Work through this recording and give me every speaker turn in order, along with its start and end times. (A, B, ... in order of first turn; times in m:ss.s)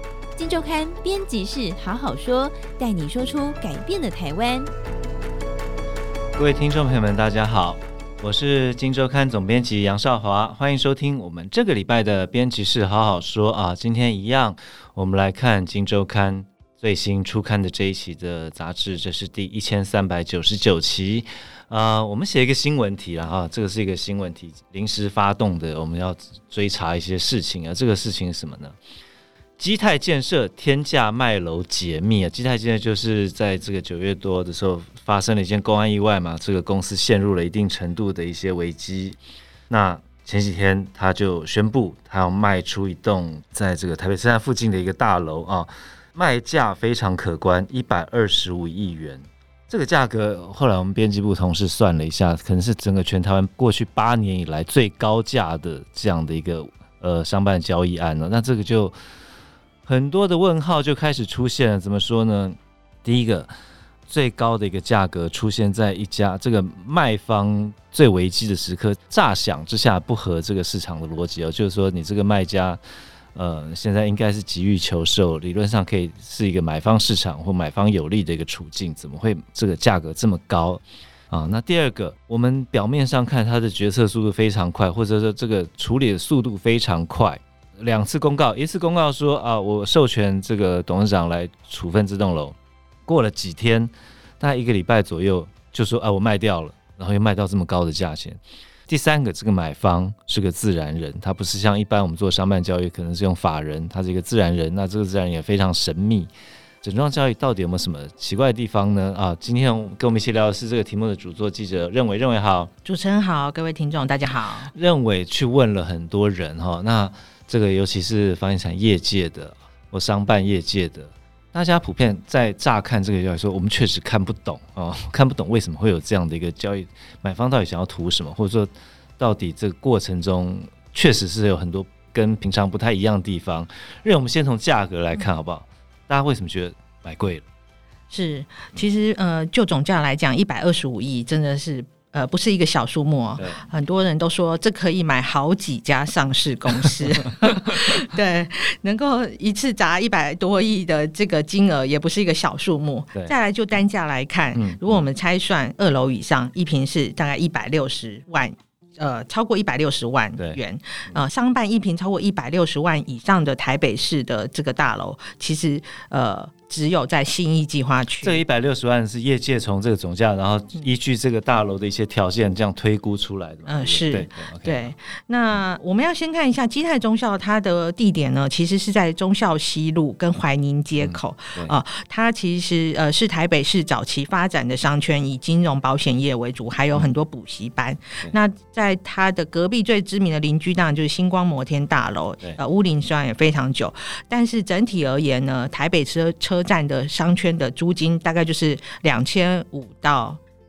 0:00.4-0:04.7 A
0:06.4-0:28.8 B
0:29.6-0:39.2 B
0:39.7-0:59.0 B
0:59.8-1:03.5 B
1:04.1-1:12.8 B
1:13.4-1:46.3 B
1:46.8-1:52.7 B
1:52.8-1:54.7 C
1:54.7-2:17.4 B
2:18.1-2:48.4 C
2:34.6-2:35.0 B
2:40.4-2:41.2 B
2:48.2-2:54.9 B
2:53.7-3:20.4 C
3:01.0-3:01.8 B